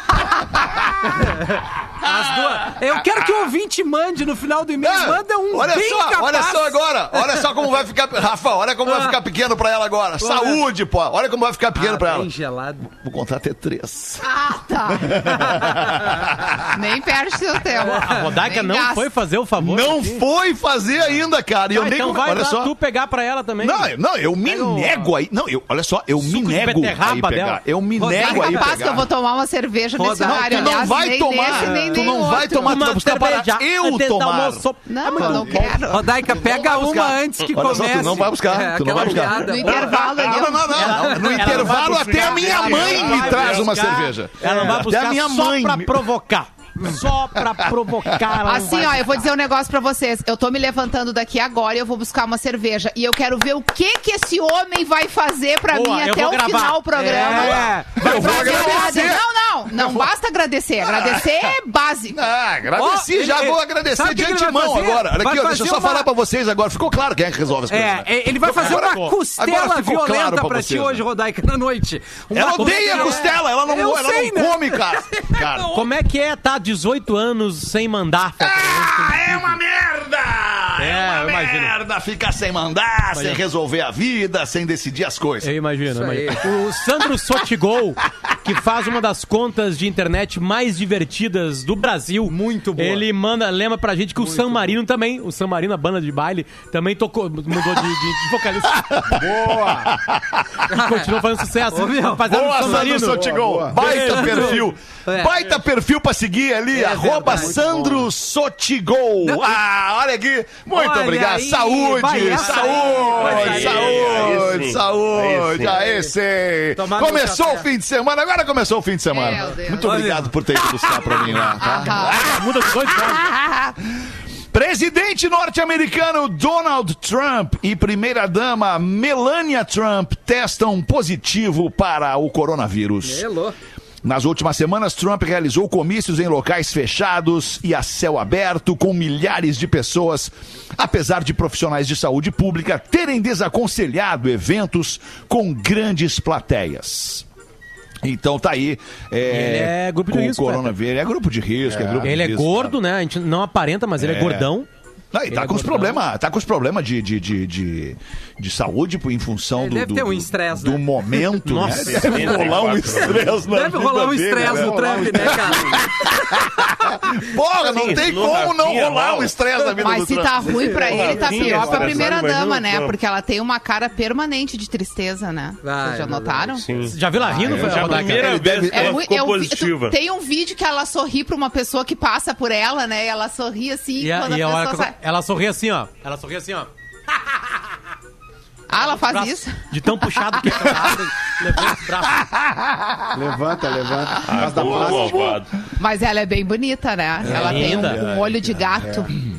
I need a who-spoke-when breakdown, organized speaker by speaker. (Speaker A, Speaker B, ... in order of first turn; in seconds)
Speaker A: 0.5-1.4, 2.0-3.5, 4.8-12.3, 12.8-14.2, 14.8-16.6, 19.6-22.7, 23.6-29.1, 30.2-46.1, 47.3-48.6, 58.0-60.1, 60.8-61.5, 62.1-71.0, 72.3-75.8, 78.4-85.5, 98.7-100.7, 102.3-133.2, 134.0-147.2, 148.0-152.8, 154.0-154.5, 155.1-170.7, 177.2-179.0, 191.5-193.2, 194.2-195.4, 197.2-199.0
Speaker B: 1.1-7.7, 8.8-9.2, 10.2-10.6, 11.8-12.8, 15.5-16.3, 17.7-18.4, 24.5-25.0, 28.0-29.0, 29.9-31.8, 35.9-41.8, 44.4-44.8, 56.9-59.0, 62.8-66.1, 67.7-75.7, 85.9-86.4, 92.3-93.0, 94.2-94.7, 100.7-101.2, 101.7-102.9, 103.8-105.6, 106.7-107.7, 109.2-109.6, 110.7-114.3, 115.6-116.1, 116.8-117.7, 119.7-120.3, 133.0-133.6, 159.6-161.3, 162.9-166.1, 170.6-171.5, 175.6-176.6
Speaker C: 14.2-15.6, 16.7-19.1, 28.1-32.8, 34.9-36.2, 39.3-41.0, 42.1-42.6, 48.4-62.2, 119.1-120.0, 121.6-122.3, 169.8-176.7, 178.7-184.9, 188.7-190.9, 195.8-199.2
Speaker D: 17.8-20.2, 21.7-23.9, 26.1-27.6, 31.8-35.7, 40.6-49.2, 55.7-58.8, 68.5-69.1, 72.5-73.1, 75.7-79.5, 80.8-81.8, 83.1-83.4, 85.4-98.9, 100.7-103.2, 103.7-104.6, 112.5-114.3, 121.9-123.2, 149.3-150.7, 152.0-154.7, 155.3-156.0, 161.4-162.4, 176.9-178.4, 184.0-186.7, 188.9-192.2, 197.3-198.0
Speaker E: 42.6-43.7, 113.2-115.8, 161.9-163.4, 167.7-169.3, 170.8-172.9, 176.6-179.9, 194.2-195.5
Speaker F: 99.1-99.9, 103.0-103.7, 107.3-108.0, 151.7-152.1, 164.4-165.8, 171.2-171.7, 193.1-195.4